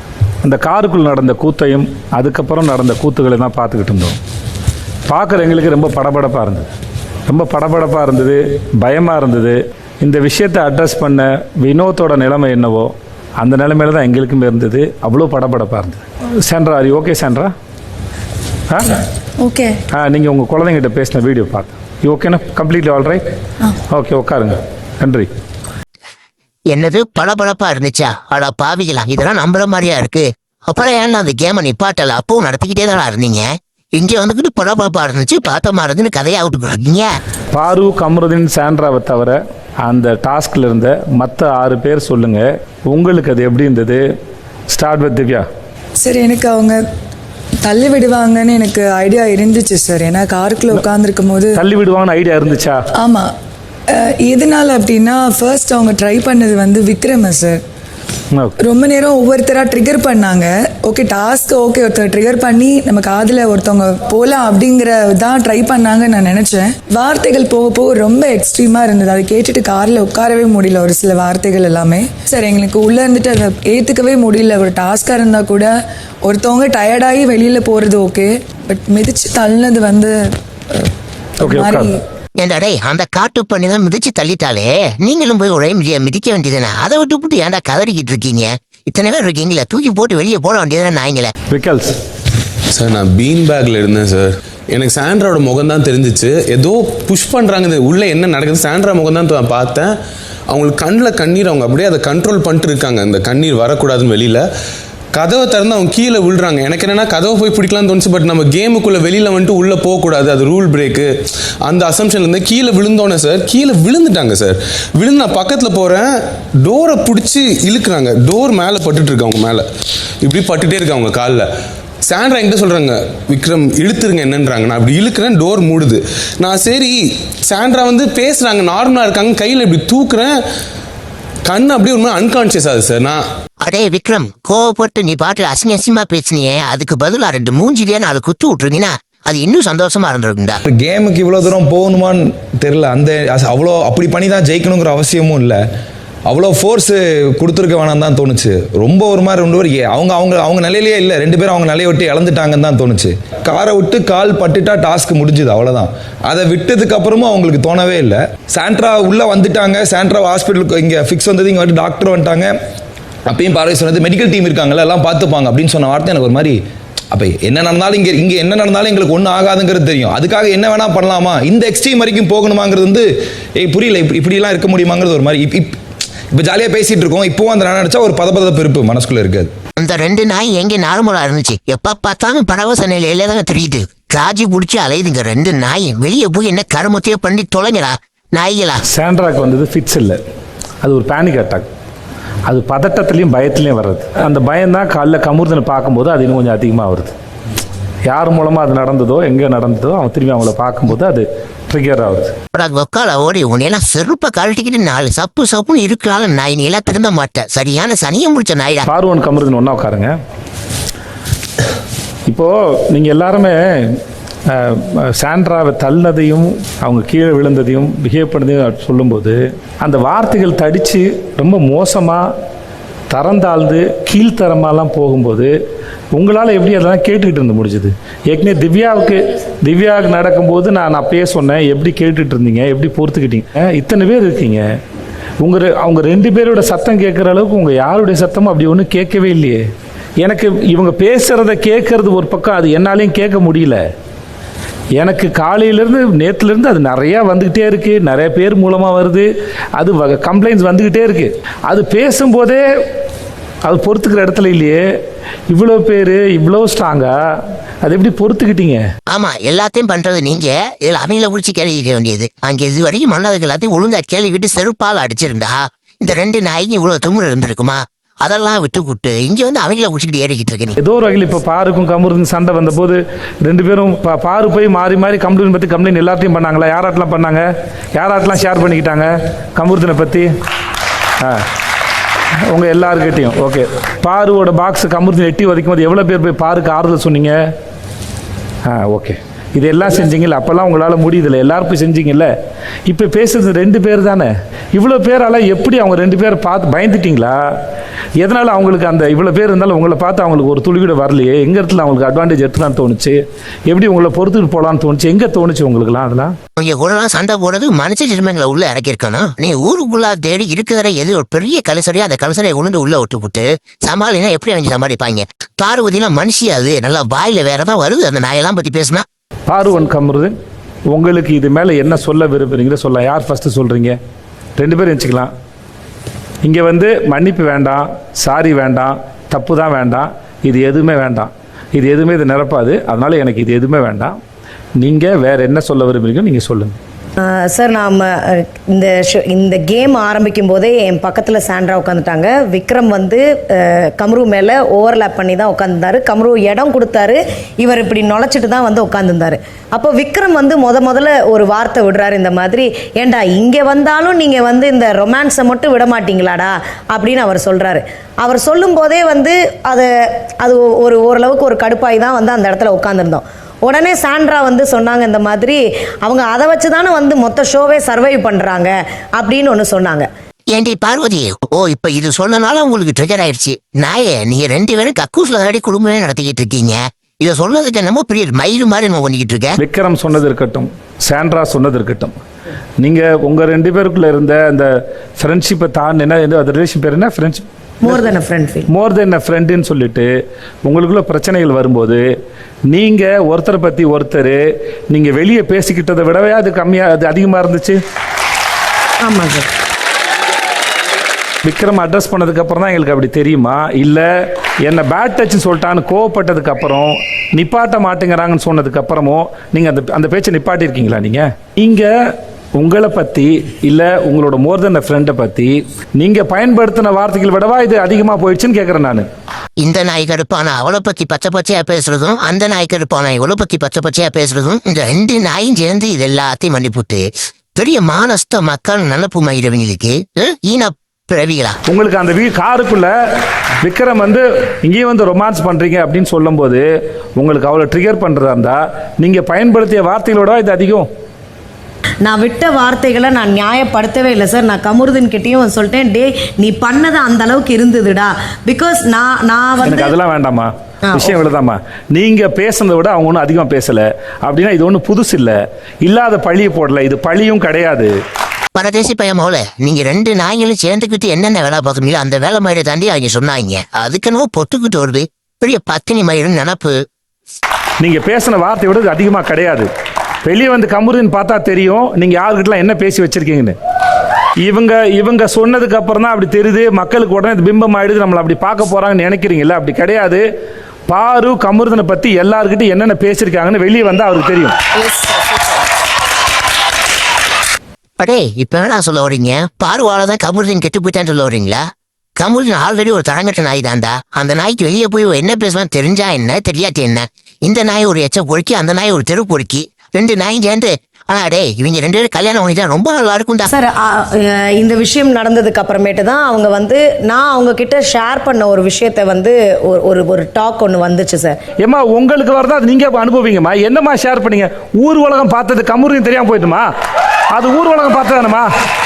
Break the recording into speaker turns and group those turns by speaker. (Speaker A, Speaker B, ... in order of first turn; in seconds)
Speaker A: 0.4-4.2, 5.1-6.7, 7.3-17.5, 18.7-18.9, 19.9-23.2, 23.9-25.3, 37.5-44.0, 44.7-45.5, 51.5-52.8, 81.4-81.9, 91.5-91.9, 188.9-190.2, 190.8-191.7, 192.5-197.1, 198.1-202.3, 208.8-210.1, 212.3-222.3, 223.1-225.5, 226.1-234.7, 235.4-239.6, 240.2-243.8, 244.9-252.6, 253.6-254.8, 255.5-257.1, 257.8-258.8, 270.8-280.3, 282.5-287.4, 288.6-292.3, 292.9-297.4, 298.2-306.3, 319.5-320.3, 320.9-324.0, 324.6-325.3, 326.4-334.2, 334.8-336.8, 379.6-382.1, 382.8-387.9, 388.7-390.1, 390.6-392.1, 392.7-394.4, 394.9-397.8, 401.4-404.1, 404.6-411.9, 412.6-419.1, 431.7-432.9, 433.6-436.6, 437.2-440.9, 449.6-457.9, 467.8-469.7, 470.2-473.5, 474.4-480.2, 480.9-484.5, 511.6-516.7, 517.3-518.5
Speaker B: 19.4-19.7, 46.0-46.8, 47.6-51.6, 53.0-53.3, 53.9-57.6, 58.6-75.7, 76.2-80.1, 81.4-81.9, 485.0-485.4
Speaker C: 26.7-37.2, 82.4-91.3, 133.6-140.6, 179.8-188.8, 202.5-208.9, 259.1-270.8, 306.6-319.0, 370.5-379.6, 419.6-431.6, 458.5-466.8, 488.0-491.6, 492.2-503.5
Speaker D: 92.7-99.9, 100.5-104.5, 105.1-119.7, 120.2-121.5, 122.0-130.4, 131.4-133.2
Speaker E: 140.7-145.6, 146.3-162.5, 163.3-166.6, 167.1-173.1, 173.6-175.7, 176.3-179.5
Speaker F: 337.2-359.9, 360.4-370.1, 387.8-388.7, 399.0-399.5, 442.0-449.9, 450.9-451.1, 503.5-511.4